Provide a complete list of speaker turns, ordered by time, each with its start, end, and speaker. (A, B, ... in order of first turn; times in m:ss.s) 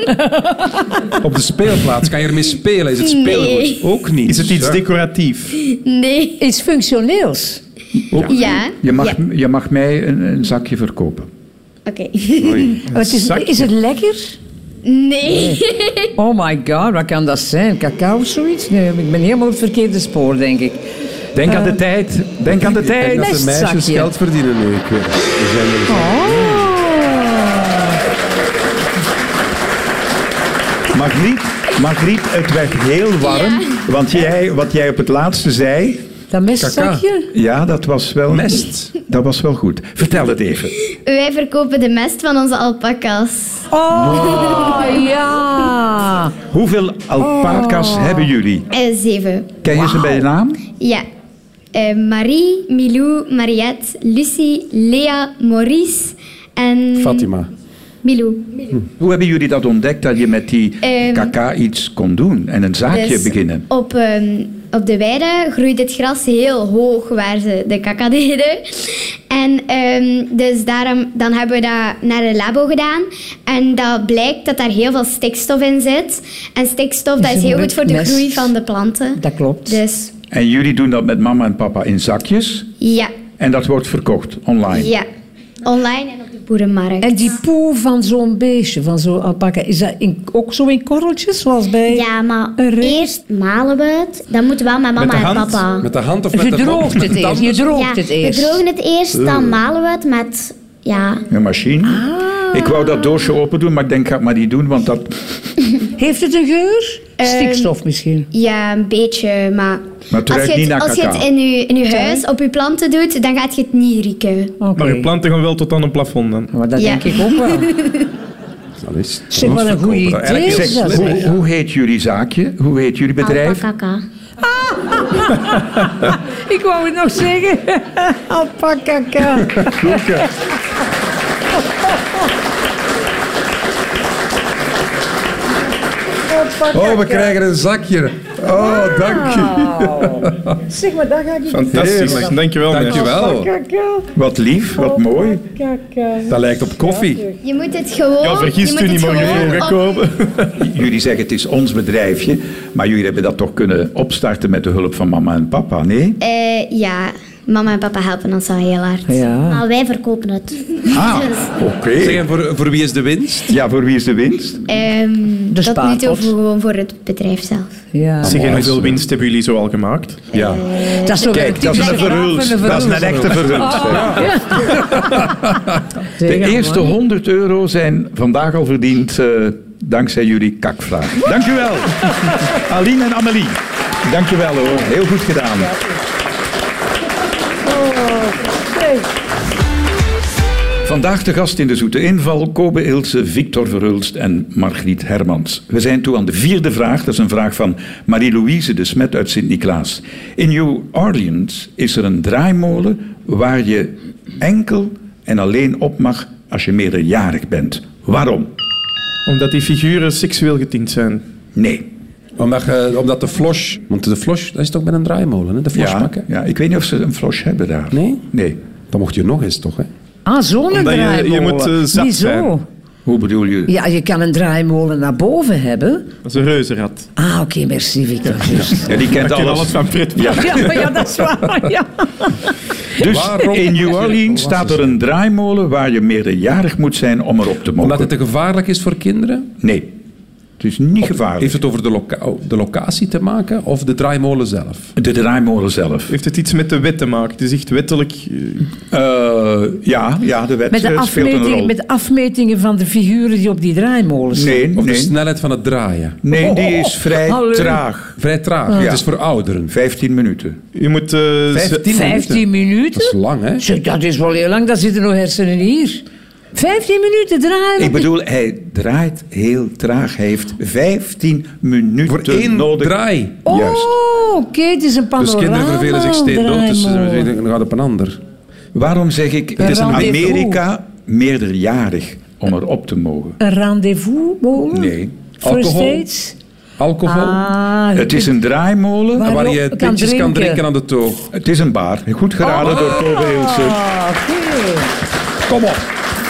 0:00.1-0:01.0 A
0:01.2-0:04.8 B
0:03.0-0:03.8 C
0:04.2-0:05.6 D
0:05.6-0:06.4 C
0:06.4-0:07.6 A
0:08.1-0:11.3 E
0:08.2-0:09.2 C
0:11.9-0:12.8 C
0:12.4-0:12.8 B
0:12.9-0:14.4 A
0:13.0-0:13.5 D
0:14.8-0:16.1 C
0:15.3-0:15.6 A
0:16.2-0:20.8 A
0:21.3-0:23.3 E
0:21.4-0:21.8 A
0:22.6-0:26.7 B
0:23.1-0:24.1 A
0:25.9-0:27.8 A
0:30.9-0:36.0 E
0:33.3-0:33.6 C
0:36.3-0:37.3 A
0:36.6-0:37.0 B
0:37.3-0:40.8 E
0:38.3-0:38.9 B
0:40.9-0:45.0 C
0:43.7-0:46.3 A
0:44.2-0:44.6 B
0:46.5-0:48.7 E
0:47.2-0:48.3 A
0:48.7-0:50.2 C
0:49.6-0:50.6 E
0:50.8-0:51.0 C
0:51.7-0:57.3 C
0:57.0-0:57.5 B
0:58.0-0:58.7 C
0:59.0-1:03.6 E
1:00.8-1:01.3 C
1:02.9-1:20.1 C
1:17.2-1:18.5 A
1:19.2-1:19.8 A
1:20.3-1:22.7 E
1:22.8-1:23.1 C
1:23.4-1:24.9 E
1:24.7-1:25.1 C
1:25.6-1:27.3 C
1:27.0-1:33.1 A
1:31.9-1:35.9 F
1:35.0-1:35.6 D
1:35.8-1:37.7 B
1:36.3-1:38.6 A
1:37.7-1:41.2 F
1:41.3-1:45.4 E
1:41.8-1:43.1 A
1:46.0-1:48.3 A
1:47.2-1:47.7 C
1:48.3-1:54.6 C
1:50.1-1:51.3 E
1:51.9-1:52.2 A
1:54.6-1:55.1 A
1:54.8-1:56.5 D
1:56.5-1:57.7 A
1:56.8-1:58.0 C
1:58.8-2:01.2 B
1:59.3-2:01.1 A
1:59.4-2:03.6 E
2:03.2-2:04.0 F
2:04.4-2:10.3 A
2:09.5-2:10.2 B
2:16.3-2:17.3 A
2:16.7-2:20.6 B
2:18.5-2:24.1 A
2:21.5-2:23.3 D
2:21.7-2:23.5 B
2:24.1-2:25.4 E
2:24.8-2:27.2 A
2:26.2-2:27.2 B
2:27.4-2:29.9 C
2:28.2-2:30.6 D
2:30.6-2:36.2 E
2:36.2-2:39.2 C
2:39.1-2:39.6 A
2:39.5-2:40.7 F
2:40.9-2:42.2 E
2:42.0-2:43.5 B
2:43.5-2:44.6 E
2:44.7-2:47.7 C
2:45.5-2:46.3 A
2:47.9-2:48.6 A
2:48.2-2:49.0 B
2:48.2-2:50.2 D
2:50.3-2:52.1 C
2:50.3-2:50.6 B
2:50.9-2:55.3 A
2:51.2-2:54.6 E
2:52.9-2:55.1 B
2:56.2-2:56.9 A
2:56.2-3:05.8 E
3:07.7-3:09.0 A
3:10.8-3:28.5 E
3:29.2-3:31.2 D
3:31.6-3:31.9 E
3:32.4-3:36.2 B
3:35.7-3:38.6 E
3:37.9-3:38.2 B
3:38.9-3:39.9 B
3:40.2-3:42.6 A
3:40.7-3:42.5 D
3:43.0-3:43.7 E
3:43.7-3:46.1 A
3:46.2-3:47.1 D
3:47.2-3:48.9 A
3:48.8-3:50.8 E
3:48.9-3:50.9 D
3:50.3-3:52.4 A
3:53.0-3:58.1 E
3:53.0-3:55.0 B
3:57.8-3:59.5 B
3:59.6-3:59.9 E
4:00.6-4:01.6 E
4:01.0-4:04.9 B
4:05.0-4:06.1 E
4:06.1-4:08.7 D
4:08.9-4:11.7 E
4:10.7-4:14.6 A
4:14.3-4:15.1 E
4:14.8-4:16.2 B
4:16.2-4:18.2 E
4:16.3-4:17.8 A
4:18.2-4:19.7 B
4:18.7-4:19.0 E
4:19.7-4:20.6 E
4:20.7-4:21.9 D
4:21.5-4:23.6 B
4:21.9-4:26.0 A
4:26.5-4:28.0 A
4:27.8-4:33.9 E
4:32.0-4:33.4 B
4:33.4-4:37.3 A
4:35.2-4:38.2 B
4:38.7-4:43.4 E
4:39.6-4:40.6 A
4:43.4-4:46.3 A
4:44.7-4:45.1 E
4:45.4-4:46.0 B
4:46.8-4:47.5 B
4:47.0-4:48.3 A
4:47.9-4:49.3 E
4:49.2-4:50.6 A
4:49.2-4:51.3 B
4:51.3-4:53.8 E
4:52.4-4:54.9 A
4:55.4-4:55.8 E